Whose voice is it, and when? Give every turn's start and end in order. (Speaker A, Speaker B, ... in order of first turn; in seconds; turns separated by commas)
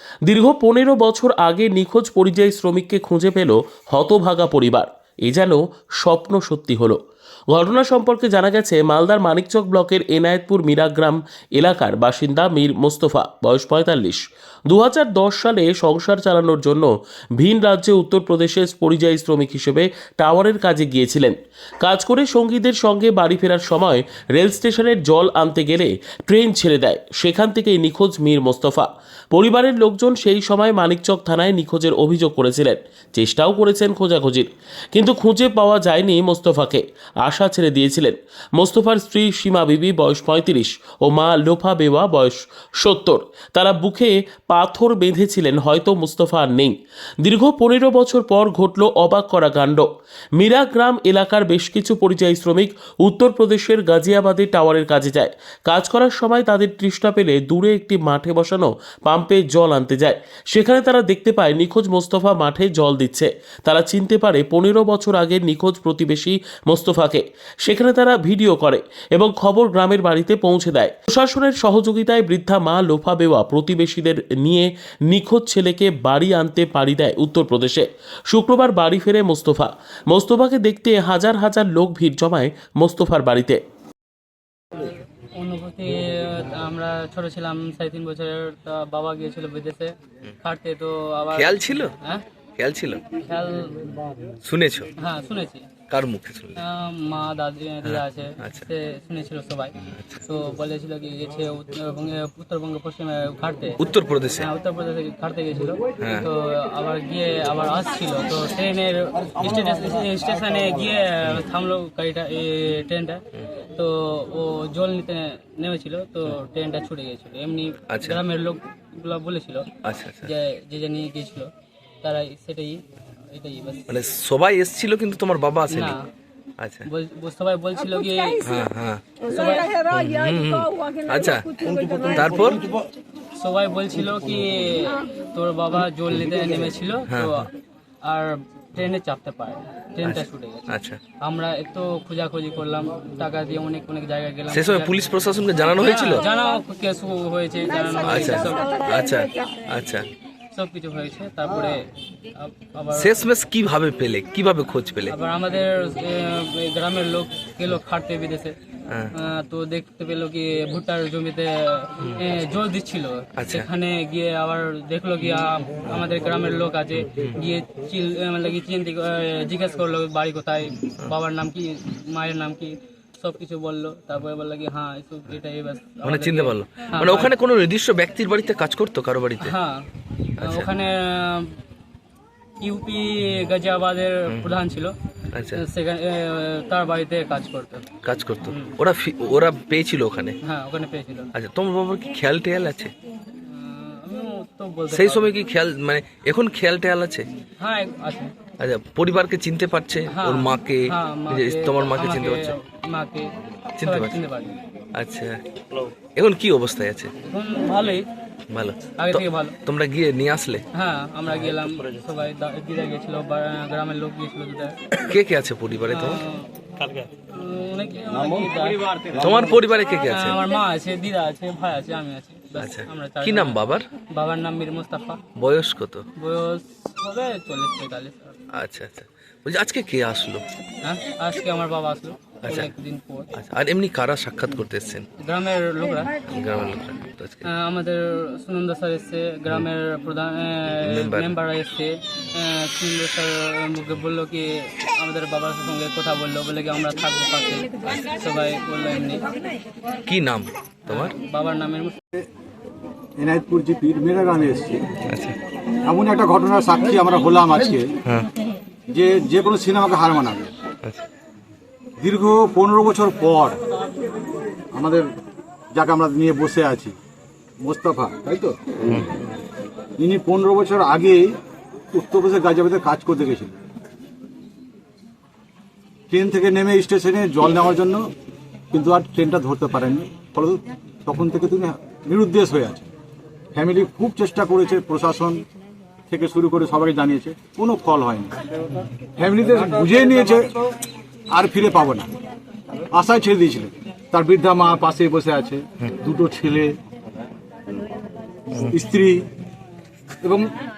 Speaker A: 0.2-7.0, Speaker A: 7.5-83.6, Speaker B: 84.7-92.2, Speaker C: 91.3-91.9, Speaker C: 92.6-93.1, Speaker B: 93.1-94.0, Speaker C: 94.4-94.9, Speaker B: 95.0-95.7, Speaker C: 95.9-96.6, Speaker B: 96.6-103.8, Speaker C: 97.8-98.6, Speaker C: 103.8-104.5, Speaker B: 104.4-119.7, Speaker C: 106.0-106.3, Speaker C: 117.9-118.2, Speaker C: 119.8-120.3, Speaker B: 120.2-121.5, Speaker B: 122.0-122.8, Speaker B: 123.3-123.9, Speaker C: 123.9-126.0, Speaker B: 125.7-126.1, Speaker C: 126.6-126.9, Speaker B: 126.9-128.4, Speaker C: 128.4-129.2, Speaker B: 129.3-129.8, Speaker C: 129.8-132.6, Speaker B: 131.8-132.1, Speaker B: 133.3-137.5, Speaker C: 137.1-137.4, Speaker B: 138.0-144.9, Speaker C: 140.0-141.0, Speaker C: 144.5-146.3, Speaker B: 145.8-148.8, Speaker C: 148.0-150.1, Speaker B: 150.5-151.8, Speaker B: 152.3-153.2, Speaker C: 152.9-155.2, Speaker B: 155.1-158.6, Speaker B: 159.1-177.3, Speaker C: 163.3-163.7, Speaker C: 167.1-167.3, Speaker C: 176.0-179.6, Speaker B: 179.4-179.9, Speaker C: 180.4-180.7, Speaker B: 180.4-181.6, Speaker B: 182.6-184.9, Speaker C: 184.3-184.6, Speaker C: 185.3-185.6, Speaker B: 185.5-187.9, Speaker C: 188.0-190.4, Speaker B: 188.5-188.7, Speaker B: 190.4-191.3, Speaker C: 191.3-192.9, Speaker B: 193.4-195.3, Speaker C: 194.9-197.2, Speaker B: 197.6-198.3, Speaker C: 198.6-202.5, Speaker B: 200.1-203.3, Speaker C: 203.8-204.2, Speaker B: 203.8-204.6, Speaker C: 204.9-205.4, Speaker C: 206.2-207.1, Speaker B: 207.3-208.1, Speaker C: 208.5-210.6, Speaker B: 209.0-209.6, Speaker B: 210.7-214.8, Speaker C: 214.9-216.2, Speaker B: 215.9-218.9, Speaker C: 219.1-220.4, Speaker B: 220.1-225.2, Speaker C: 222.6-223.9, Speaker C: 225.3-226.0, Speaker B: 226.2-228.3, Speaker C: 228.5-230.4, Speaker B: 230.8-233.3, Speaker C: 232.4-232.7, Speaker C: 233.3-235.1, Speaker B: 235.2-236.2, Speaker C: 236.2-237.4, Speaker B: 237.4-249.3, Speaker C: 240.8-241.4, Speaker C: 250.1-251.1, Speaker B: 250.9-252.0, Speaker D: 253.2-254.8, Speaker C: 255.1-255.3, Speaker D: 255.8-257.9, Speaker D: 258.9-260.5, Speaker D: 262.0-263.6, Speaker D: 264.7-265.1, Speaker D: 265.7-266.9, Speaker D: 267.6-268.6, Speaker D: 270.0-271.4, Speaker D: 271.9-273.6, Speaker D: 276.1-278.1, Speaker D: 278.7-282.9, Speaker D: 283.5-285.4, Speaker D: 286.1-288.3, Speaker D: 289.2-290.4, Speaker D: 291.3-292.1, Speaker D: 292.9-296.7, Speaker D: 298.7-299.2, Speaker D: 300.2-300.5